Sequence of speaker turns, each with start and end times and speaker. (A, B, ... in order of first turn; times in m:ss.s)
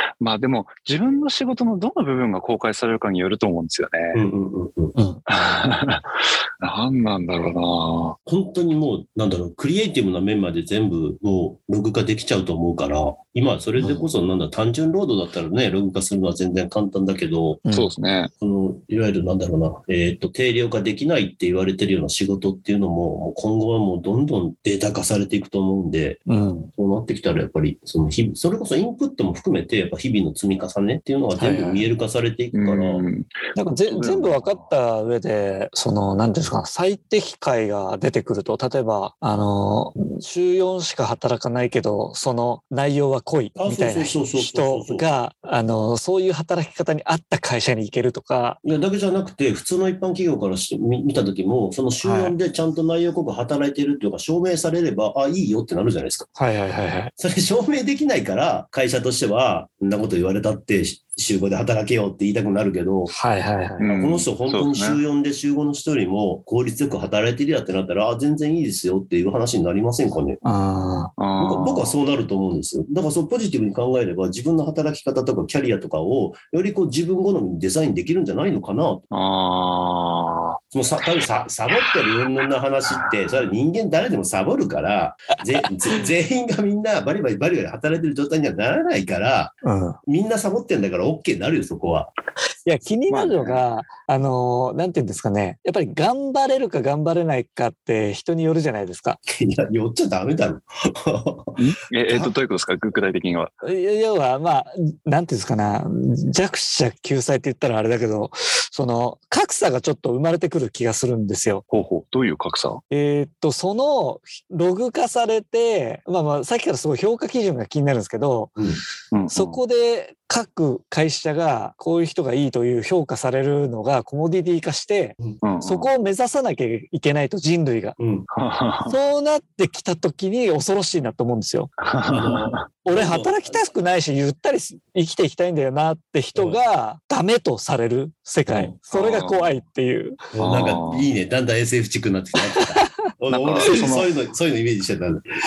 0:00.2-0:04.2 A
0:04.1-0:05.0 B
0:05.0-0:05.2 C
0:05.3-0:08.2 A
0:08.3-0:17.6 B
0:17.7-0:18.3 A
0:18.4-0:26.2 B
0:26.3-0:26.7 C
0:26.8-0:33.0 B
0:31.4-0:31.9 C
0:32.5-0:34.6 A
0:33.6-0:48.6 C
0:43.6-0:45.0 B
0:48.6-0:56.3 B
0:52.0-0:52.4 C
0:56.4-0:57.1 C
0:57.2-1:03.1 B
1:03.1-1:03.9 C
1:03.8-1:05.0 A
1:03.8-1:10.4 B
1:10.4-1:11.1 C
1:11.2-1:11.9 A
1:11.4-1:19.0 B
1:19.1-1:20.6 A
1:20.7-1:29.6 B
1:29.6-1:30.0 C
1:30.1-1:32.1 B
1:32.6-1:39.2 C
1:33.1-1:33.6 A
1:39.3-1:42.3 B
1:41.6-1:43.5 A
1:43.6-1:51.6 C
1:51.7-1:52.8 A
1:52.9-1:58.6 C
1:58.6-1:58.8 B
1:59.1-1:59.6 A
1:59.3-2:08.0 C
2:05.4-2:05.9 A
2:08.0-2:08.3 B
2:08.3-2:08.9 A
2:08.9-2:11.7 C
2:11.8-2:12.6 A
2:12.1-2:13.6 B
2:12.8-2:20.3 C
2:18.5-2:18.8 B
2:18.9-2:19.6 A
2:20.3-2:25.2 B
2:20.4-2:21.1 A
2:22.5-2:22.9 C
2:23.3-2:24.1 A